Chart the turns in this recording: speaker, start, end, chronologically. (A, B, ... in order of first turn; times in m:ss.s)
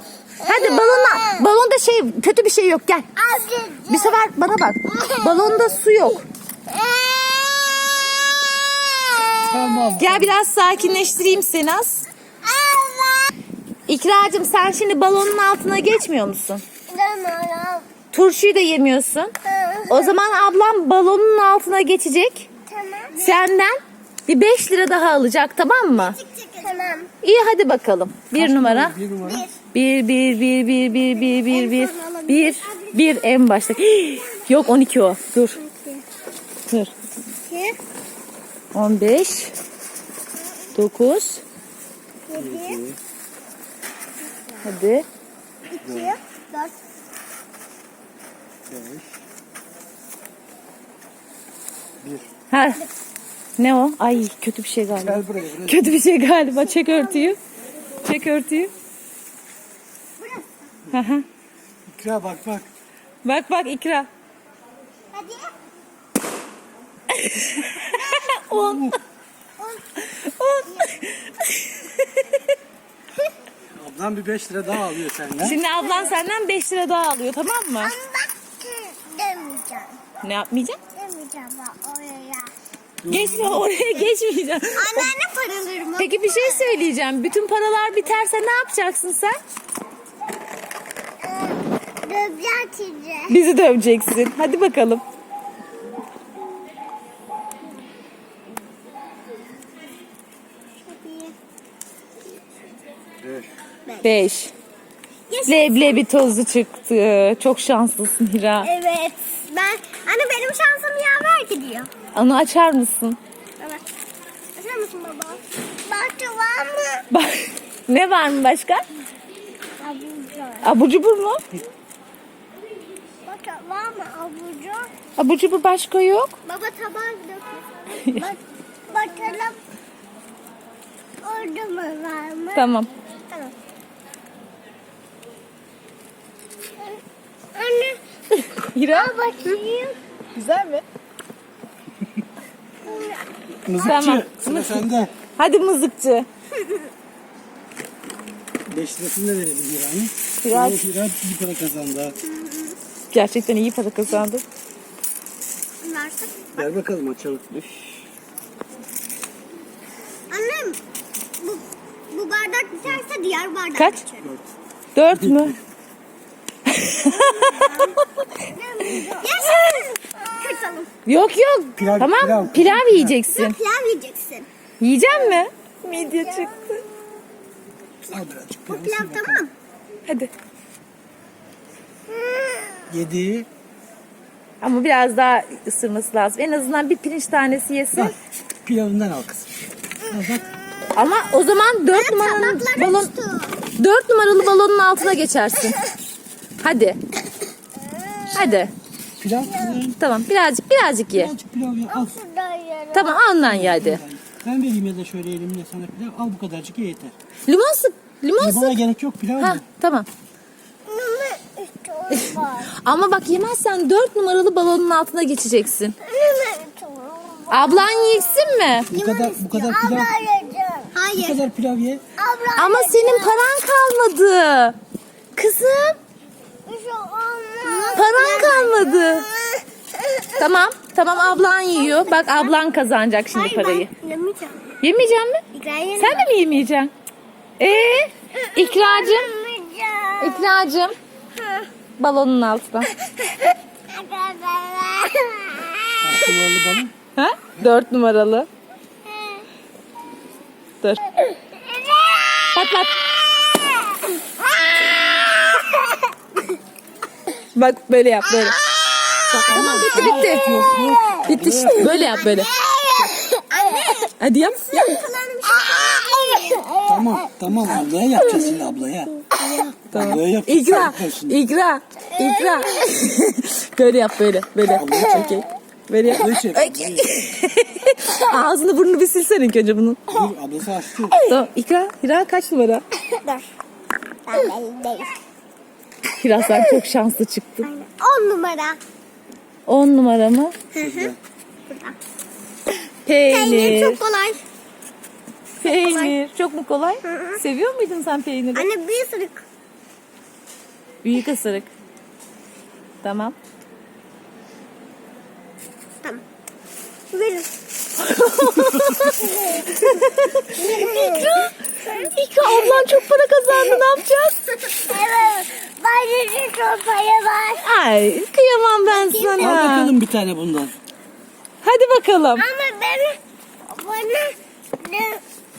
0:00.4-0:03.1 A
0:00.5-0:01.4 B
0:03.2-0:04.2 B
0:03.9-0:06.2 A
0:05.0-0:05.6 B
0:06.7-0:07.9 B
0:08.7-0:09.6 B
0:09.5-0:10.4 C
0:10.0-0:12.0 A
0:12.4-0:13.3 B
0:13.9-0:16.6 A
0:16.9-0:17.8 B
0:18.1-0:19.3 A
0:19.5-0:20.1 B
0:19.9-0:22.5 A
0:22.7-0:23.4 B
0:23.2-0:26.2 A
0:25.9-0:27.1 B
0:27.2-0:29.0 A
0:28.3-0:29.5 C
0:29.2-0:29.5 B
0:29.7-0:35.6 A
0:31.3-0:32.9 B
0:35.6-0:36.0 B
0:37.5-0:37.8 B
0:38.7-0:39.5 A
0:40.7-0:41.4 A
0:42.3-0:42.8 B
0:42.3-0:43.0 C
0:44.6-0:45.1 A
0:45.7-0:46.7 B
0:45.8-0:46.2 C
0:48.7-0:49.1 C
0:52.0-0:52.3 C
0:52.5-0:52.8 A
0:53.6-0:57.4 A
0:54.9-0:56.0 C
0:56.8-0:57.3 B
0:58.0-0:58.7 A
1:00.2-1:00.7 B
1:00.9-1:01.3 A
1:01.9-1:02.7 C
1:03.2-1:04.1 A
1:05.1-1:05.5 B
1:07.1-1:09.0 A
1:07.9-1:08.3 B
1:08.5-1:09.0 C
1:10.0-1:12.4 A
1:13.8-1:15.6 C
1:15.4-1:18.0 A
1:15.5-1:16.2 B
1:17.8-1:20.0 B
1:20.2-1:20.8 A
1:21.0-1:22.5 B
1:23.0-1:23.7 C
1:23.1-1:25.1 A
1:24.8-1:26.8 B
1:26.0-1:29.4 A
1:31.2-1:33.3 B
1:33.3-1:35.0 A
1:40.8-1:41.3 B
1:43.2-1:43.5 C
1:44.0-1:44.5 A
1:45.3-1:46.1 B
1:45.4-1:48.7 A
1:48.6-1:51.9 B
1:52.1-1:53.2 A
1:54.6-1:57.0 B
1:57.1-1:58.8 A
1:59.8-2:00.6 B
2:00.6-2:01.5 A
2:03.3-2:04.9 B
2:05.2-2:06.4 A
2:06.4-2:09.6 B
2:11.2-2:12.6 B
2:12.6-2:12.9 A
2:17.5-2:18.0 B
2:18.4-2:19.1 A
2:18.9-2:20.0 B
2:20.4-2:20.8 A
2:22.9-2:23.2 B
2:23.7-2:25.1 C
2:23.8-2:24.8 A
2:25.4-2:26.3 A
2:28.7-2:32.2 C
2:30.4-2:30.8 A
2:32.2-2:32.8 B
2:33.1-2:34.4 A
2:35.8-2:36.6 B
2:36.6-2:38.0 C
2:40.3-2:40.8 B
2:41.4-2:44.3 B
2:44.2-2:44.5 C
2:45.0-2:45.5 A
2:45.1-2:45.6 C
2:46.7-2:47.8 A
2:47.0-2:50.9 B
2:49.5-2:49.8 A
2:51.1-2:53.6 A
2:51.8-2:53.2 C
2:53.3-2:54.5 B
2:54.8-2:56.8 A
2:55.2-2:56.7 B
2:58.0-2:59.5 B
2:58.1-2:59.4 C
3:02.1-3:02.8 B
3:02.9-3:03.5 C
3:04.6-3:08.1 A
3:08.0-3:09.5 C
3:10.1-3:10.4 C
3:11.0-3:13.1 A
3:11.9-3:13.6 B
3:13.8-3:15.8 A
3:16.6-3:17.0 A
3:17.9-3:18.6 B
3:18.3-3:18.7 A
3:19.2-3:20.0 C
3:20.0-3:21.3 A
3:21.1-3:22.2 C
3:21.9-3:23.2 B
3:22.9-3:24.0 A
3:23.5-3:27.1 C
3:27.5-3:28.8 A
3:28.4-3:29.6 C
3:29.4-3:30.1 A
3:30.9-3:32.7 B
3:32.1-3:36.0 A
3:36.0-3:41.4 B
3:37.5-3:38.9 A
3:38.9-3:40.1 C
3:41.1-3:42.0 C
3:42.2-3:43.5 B
3:42.6-3:44.8 A
3:45.4-3:46.0 A
3:46.7-3:49.6 B
3:47.9-3:49.3 A
3:50.4-3:53.9 A
3:51.1-3:52.5 B
3:53.3-3:54.6 B
3:54.8-3:55.4 A
3:55.5-3:56.3 B
3:56.0-3:56.9 A
3:57.6-3:59.3 A
3:58.4-4:00.5 B
4:00.2-4:00.9 A
4:02.0-4:02.9 A
4:03.9-4:05.9 B
4:06.0-4:06.9 C
4:07.2-4:08.5 A
4:09.1-4:09.4 B
4:11.6-4:12.5 B
4:12.6-4:13.0 A
4:13.4-4:13.8 B
4:14.5-4:15.9 B
4:17.6-4:18.6 A
4:18.4-4:21.2 B
4:19.3-4:20.6 A
4:19.3-4:22.1 C
4:21.3-4:22.5 A
4:21.8-4:27.2 B
4:24.2-4:25.0 A
4:26.8-4:29.2 C
4:29.4-4:29.7 B
4:29.9-4:40.1 A
4:29.9-4:31.4 C
4:32.2-4:32.8 B
4:34.6-4:35.4 C
4:36.0-4:37.2 C
4:40.1-4:41.2 C
4:41.2-4:42.8 A
4:43.0-4:43.5 B
4:44.3-4:45.1 B
4:46.2-4:47.7 A
4:47.6-4:48.8 B
4:49.7-4:50.6 A
4:50.7-4:51.2 C
4:50.8-4:51.1 B
4:51.7-4:52.0 B
4:53.1-4:54.0 A
4:53.3-4:54.4 B
4:55.6-4:56.1 B
4:55.6-4:58.7 A
4:57.0-4:57.4 B
4:58.6-4:59.4 B
5:01.0-5:01.7 A
5:03.0-5:03.4 A
5:07.1-5:07.5 B
5:08.0-5:14.4 A
5:09.1-5:10.0 B
5:10.5-5:13.0 B
5:14.7-5:17.6 B
5:17.6-5:19.9 A
5:18.9-5:19.7 B
5:19.4-5:20.7 C
5:21.6-5:22.5 A
5:22.4-5:23.2 B
5:23.7-5:25.2 B